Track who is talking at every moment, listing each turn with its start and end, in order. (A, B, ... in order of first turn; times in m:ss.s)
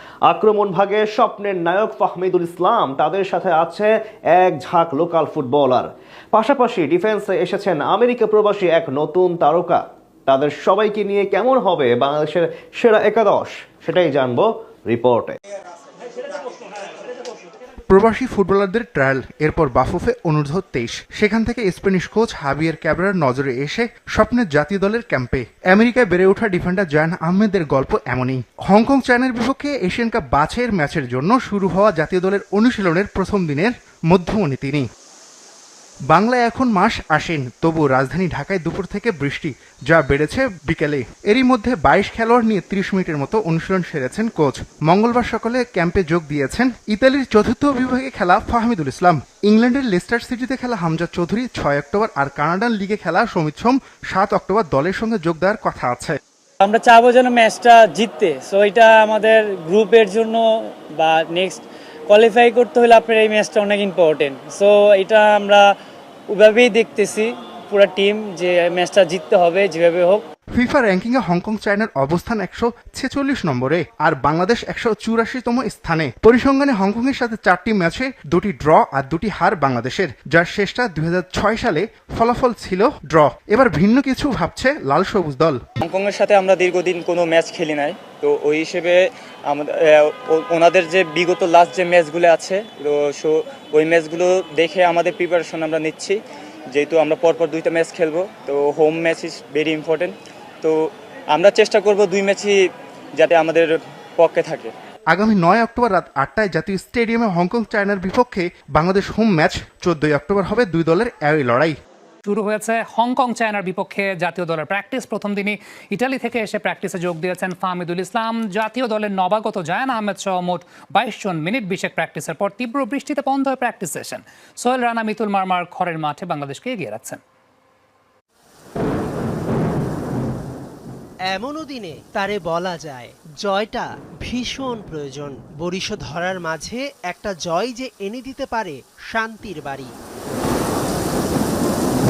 0:00.2-0:15.4 A
0:17.9-0:34.8 B
0:36.1-0:56.2 B
0:56.6-1:00.4 C
1:01.0-1:05.6 C
1:06.3-1:10.2 C
1:10.5-1:25.6 B
1:25.8-1:36.2 D
1:36.7-1:42.5 D
1:43.2-1:44.7 D
1:45.1-1:51.7 B
1:52.2-2:07.2 E
2:11.3-2:19.9 F